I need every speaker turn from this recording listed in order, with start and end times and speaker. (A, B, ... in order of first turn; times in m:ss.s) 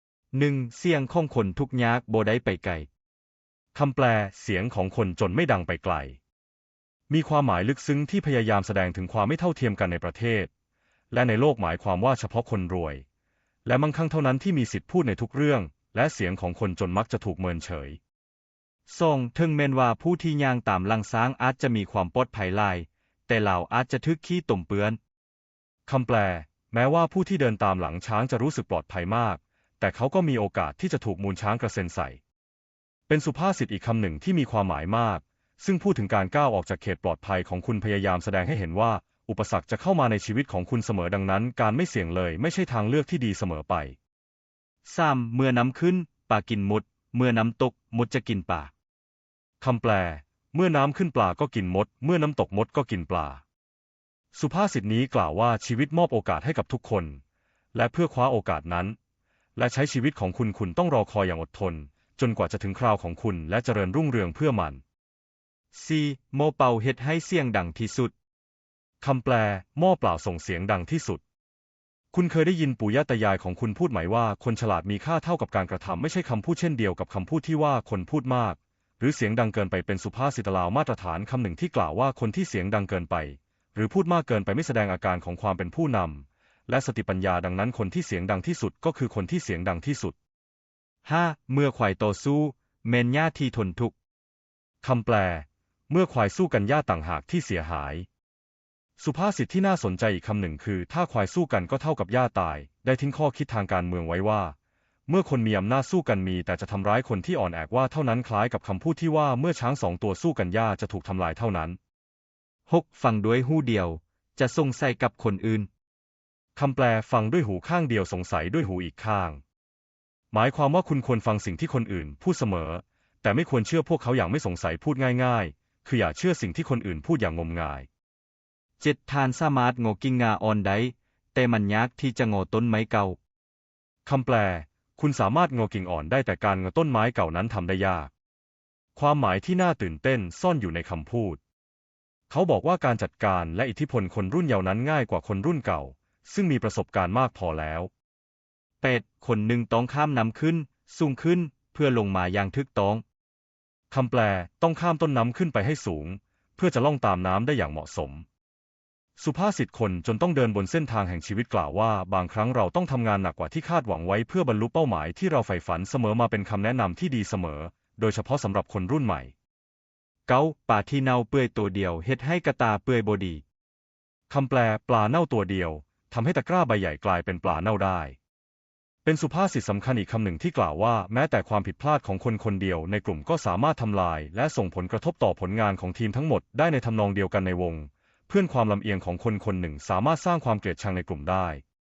0:00.3-0:02.9 A
0:03.7-0:06.2 B
0:07.1-0:10.5 B
0:11.1-0:13.0 B
0:13.7-0:18.0 B
0:18.9-0:25.0 A
0:25.9-0:32.2 B
0:33.1-0:44.0 B
0:44.8-0:48.7 A
0:49.6-0:53.4 B
0:54.3-0:57.2 B
0:57.7-0:59.0 B
0:59.6-1:04.8 B
1:05.7-1:08.1 A
1:09.0-1:11.2 B
1:12.1-1:30.2 B
1:31.0-1:34.0 A
1:34.8-1:38.1 B
1:39.0-1:44.6 B
1:45.1-1:51.8 B
1:52.7-1:55.7 A
1:56.6-1:59.4 B
2:00.3-2:07.9 B
2:08.8-2:13.2 A
2:14.0-2:18.1 B
2:19.0-2:21.4 B
2:22.3-2:27.9 B
2:28.8-2:33.0 A
2:33.9-2:38.2 B
2:39.2-2:49.3 B
2:50.3-2:53.4 A
2:54.3-2:58.2 B
2:59.0-3:11.6 B